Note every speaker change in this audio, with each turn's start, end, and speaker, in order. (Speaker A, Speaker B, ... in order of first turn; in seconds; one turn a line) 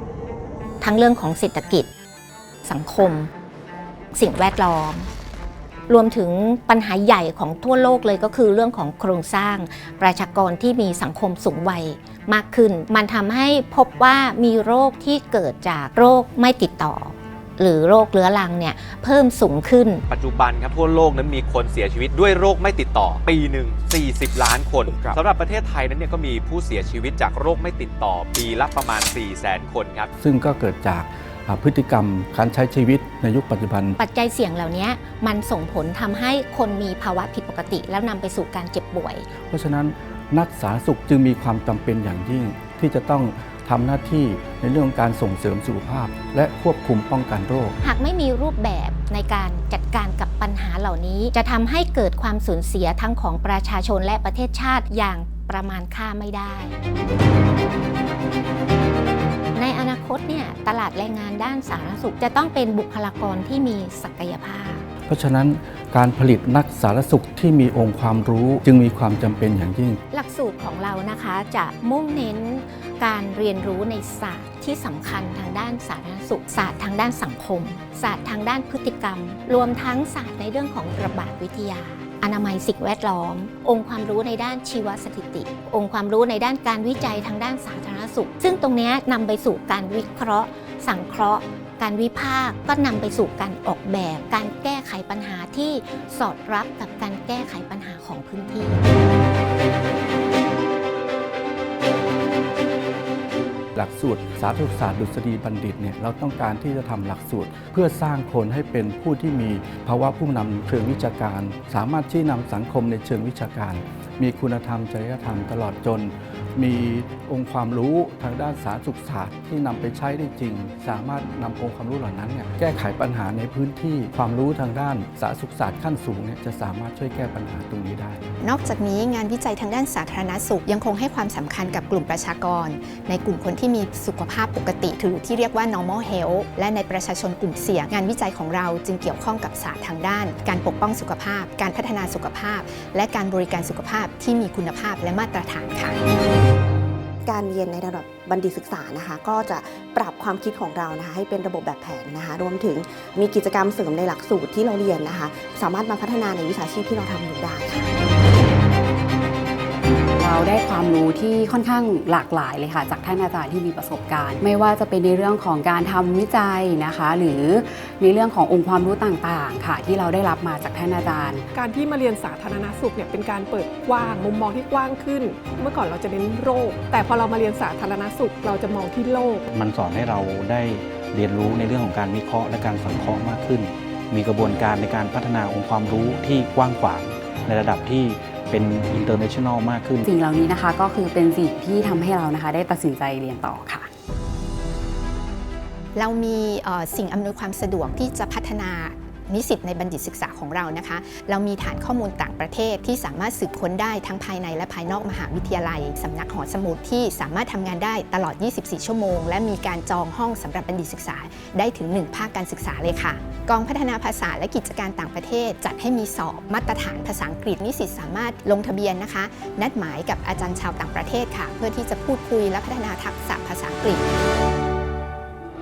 Speaker A: 0.8-1.9
Speaker A: 2.6-3.3
Speaker A: 4.1-5.1
Speaker A: 5.9-20.0
Speaker B: 20.1-30.1
Speaker C: 30.2-34.0
Speaker A: 34.0-39.3
Speaker C: 39.5-47.8
Speaker A: 47.8-56.8
Speaker A: 59.5-64.9
Speaker C: 65.1-70.0
Speaker A: 70.1-98.8
Speaker C: 103.8-128.2
Speaker D: 128.4-146.0
Speaker E: 147.3-157.9
Speaker F: 160.2-171.5
Speaker G: 171.5-179.4
Speaker H: 179.5-190.1
Speaker F: 190.1-193.9
Speaker D: 195.9-224.0